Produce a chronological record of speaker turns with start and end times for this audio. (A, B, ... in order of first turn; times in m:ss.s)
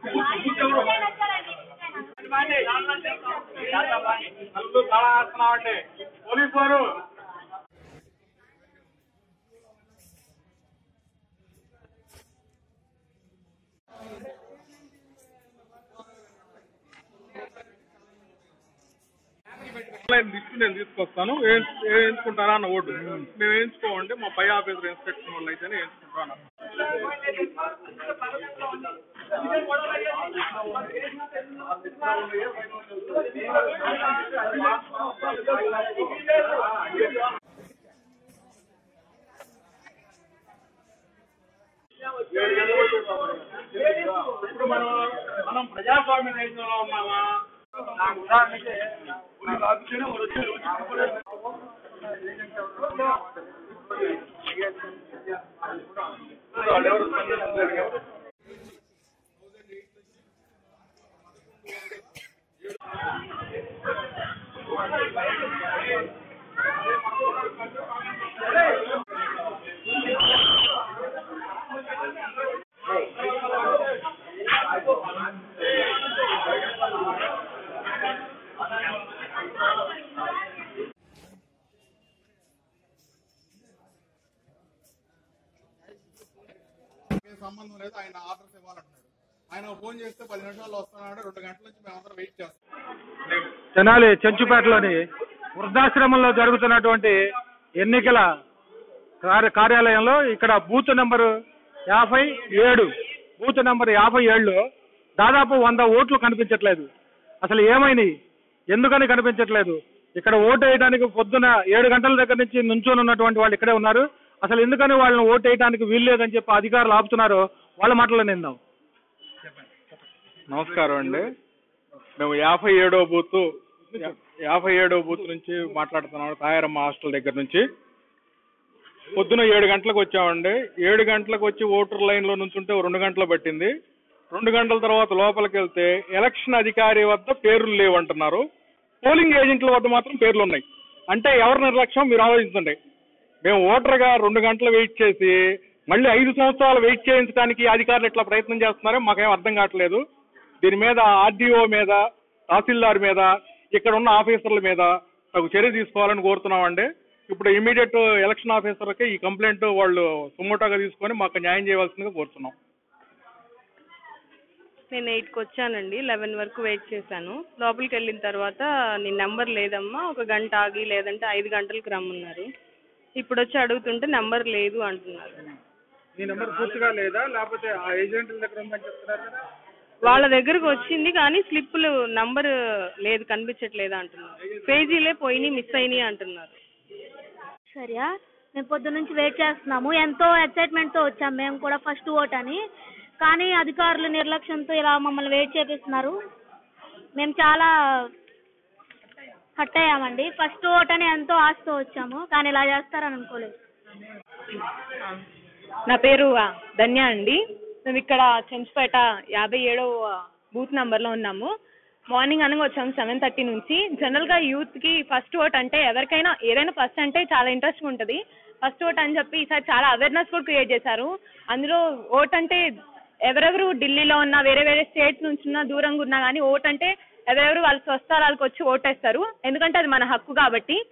0:00.4-0:01.1 A
0:02.3-0:02.8 A
0:04.4-0:06.9 A
0:19.9-0:26.4 A
0:44.3-0:47.4 A
0:48.0-0:48.8 B
0:52.2-0:53.7 B
0:56.8-0:57.7 B
1:27.2-1:32.5 C
1:33.7-1:35.0 B
1:35.6-1:37.2 B
1:37.8-1:38.2 B
1:39.2-1:41.3 B
1:41.9-1:44.6 B
1:45.2-1:46.9 B
1:47.4-1:48.1 B
1:48.7-1:58.6 B
2:00.5-2:01.2 A
2:02.2-2:07.7 A
2:09.1-2:13.7 A
2:14.3-2:18.4 A
2:19.0-2:22.8 A
2:23.4-2:25.3 A
2:25.9-2:30.0 A
2:30.6-2:42.6 A
2:44.9-2:52.5 D
2:53.2-2:55.4 D
2:56.2-2:59.4 B
3:00.0-3:06.5 D
3:07.7-3:12.6 E
3:13.2-3:16.2 E
3:17.2-3:17.7 E
3:19.6-3:23.5 E
3:25.9-3:31.5 F
3:32.1-3:42.6 F
3:43.3-3:50.8 F